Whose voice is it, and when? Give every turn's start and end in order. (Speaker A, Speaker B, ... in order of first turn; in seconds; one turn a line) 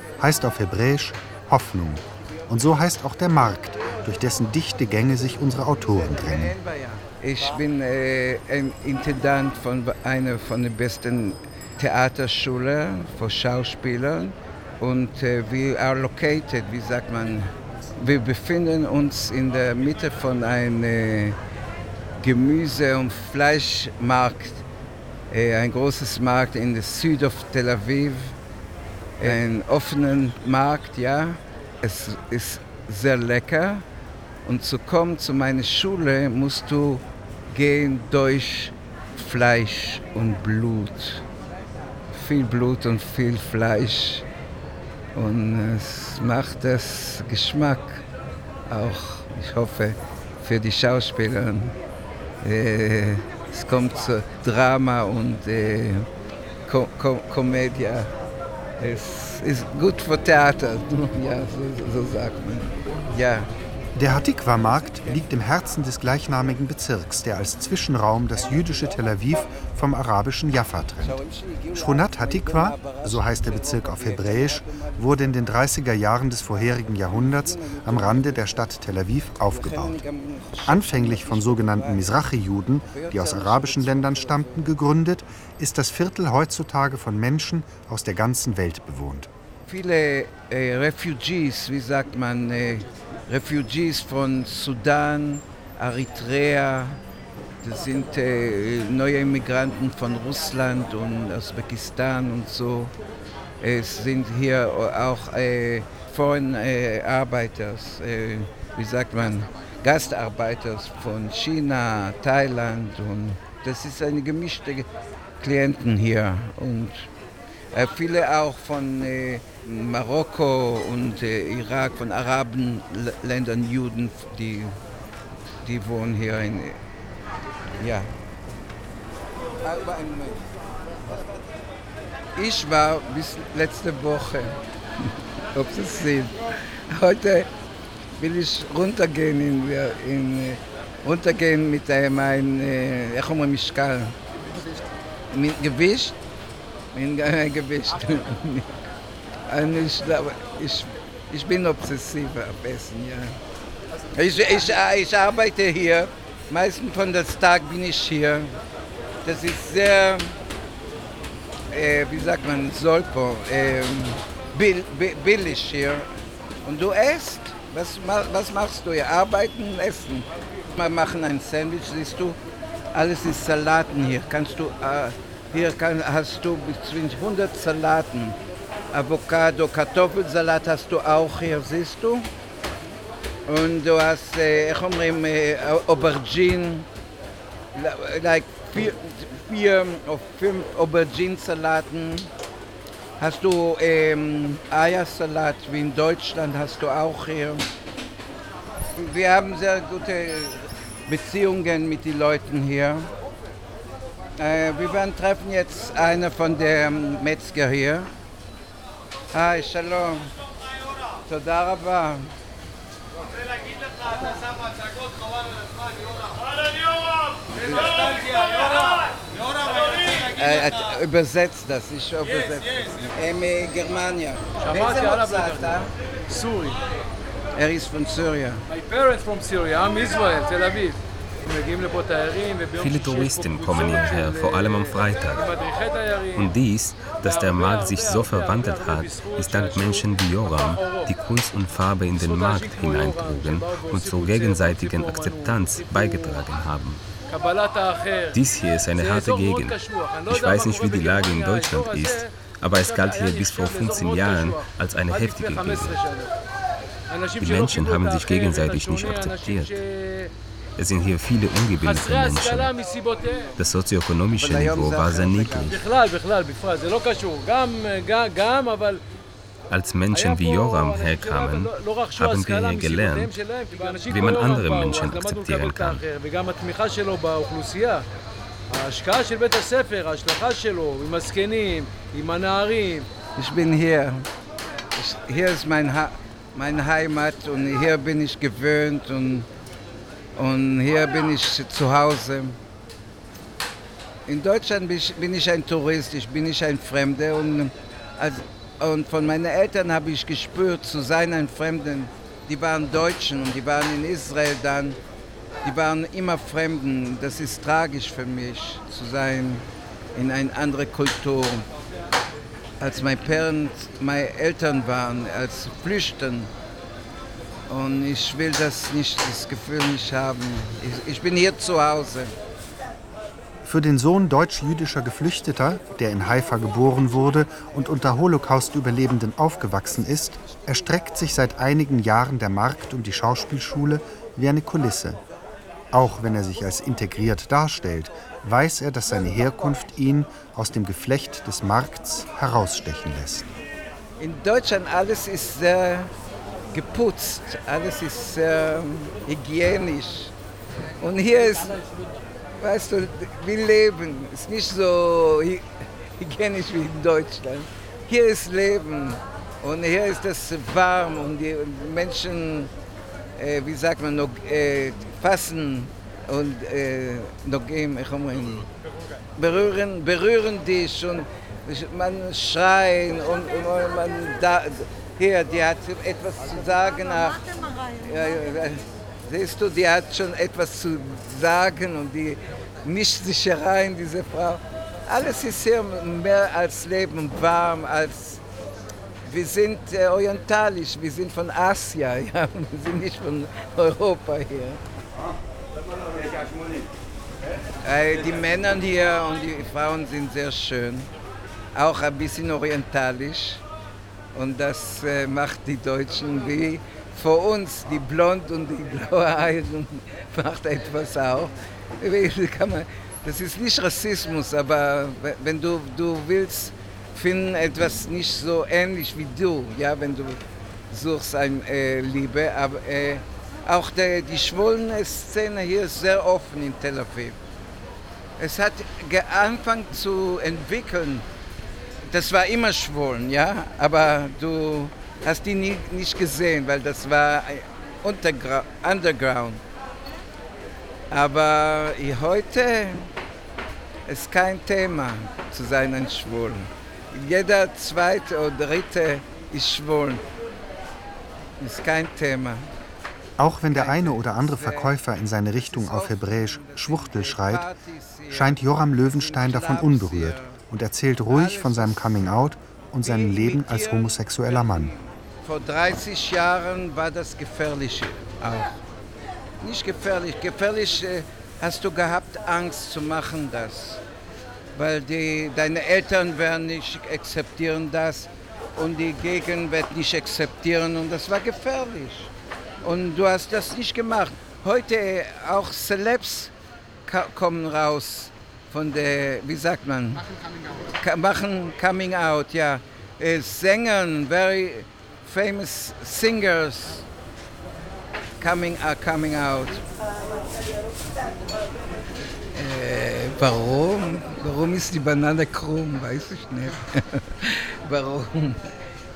Speaker A: 0.2-6.6
Speaker B: 6.1-21.4
Speaker B: 22.2-24.6
Speaker B: 25.3-28.4
Speaker B: 29.2-33.9
Speaker B: 34.4-41.2
Speaker B: 42.1-44.2
Speaker B: 45.1-48.0
Speaker B: 48.7-51.8
Speaker B: 52.4-56.1
Speaker B: 56.7-58.1
Speaker B: 58.8-63.5
Speaker A: 64.0-71.2
Speaker B: 69.0-69.3
Speaker B: 71.0-75.5
Speaker A: 71.7-80.0
Speaker B: 77.0-78.7
Speaker B: 79.5-82.2
Speaker A: 80.7-89.3
Speaker B: 82.9-84.7
Speaker B: 89.7-97.0
Speaker B: 97.6-102.9
Speaker B: 103.6-114.9
Speaker B: 115.4-117.1
Speaker B: 117.7-124.8
Speaker B: 125.6-126.8
Speaker B: 127.8-128.1
Speaker B: 129.6-130.4
Speaker B: 131.1-131.4
Speaker B: 132.3-134.6
Speaker B: 135.6-137.5
Speaker B: 138.2-144.2
Speaker B: 145.3-146.2
Speaker B: 146.9-148.7
Speaker B: 149.5-153.4
Speaker B: 154.1-158.6
Speaker B: 159.2-160.4
Speaker B: 161.7-166.1
Speaker B: 166.6-172.4
Speaker B: 172.9-178.4
Speaker B: 178.9-182.3
Speaker B: 183.5-186.9
Speaker B: 187.7-192.3
Speaker B: 193.2-197.7
Speaker B: 198.9-203.1
Speaker B: 204.4-208.1
Speaker B: 209.3-210.3
Speaker B: 211.3-212.3
Speaker B: 217.5-218.2
Speaker B: 220.1-225.9
Speaker C: 224.7-225.7
Speaker C: 226.3-226.8
Speaker B: 227.5-228.7
Speaker C: 228.7-236.5
Speaker D: 232.8-235.5
Speaker D: 236.4-247.0
Speaker C: 237.1-240.1
Speaker C: 240.6-241.1
Speaker C: 242.2-246.4
Speaker C: 247.3-248.4
Speaker D: 248.3-249.8
Speaker C: 248.9-252.3
Speaker D: 250.3-256.0
Speaker C: 252.8-256.3
Speaker C: 257.1-260.3
Speaker D: 257.4-259.8
Speaker D: 260.8-262.7
Speaker C: 261.8-263.5
Speaker D: 263.6-265.8
Speaker B: 264.4-265.8
Speaker C: 265.7-269.0
Speaker D: 269.7-273.4
Speaker C: 270.1-278.0
Speaker D: 274.1-276.1
Speaker C: 278.7-283.1
Speaker B: 283.4-284.3
Speaker B: 284.9-289.5
Speaker B: 290.4-292.6
Speaker B: 294.3-305.0
Speaker B: 305.6-311.7
Speaker B: 312.8-316.5
Speaker B: 317.7-322.4
Speaker A: 323.6-335.2
Speaker A: 335.9-343.6
Speaker B: 344.2-346.1
Speaker B: 346.7-350.3
Speaker B: 351.0-351.8
Speaker B: 352.6-362.7
Speaker B: 363.4-368.7
Speaker B: 369.4-388.4
Speaker B: 389.3-394.8
Speaker B: 397.8-401.1
Speaker B: 401.7-403.6
Speaker B: 404.3-427.4
Speaker B: 428.4-431.3
Speaker B: 432.1-439.6
Speaker B: 441.1-443.1
Speaker B: 444.1-450.2
Speaker B: 451.6-452.7
Speaker A: 453.4-457.7
Speaker B: 453.7-455.0
Speaker B: 455.6-460.6
Speaker A: 458.3-464.9
Speaker B: 461.3-462.1
Speaker B: 463.0-468.8
Speaker B: 469.6-474.0
Speaker B: 474.8-482.3
Speaker B: 482.8-486.5
Speaker B: 487.1-490.2
Speaker B: 490.9-497.1
Speaker B: 498.4-499.8
Speaker B: 502.5-508.7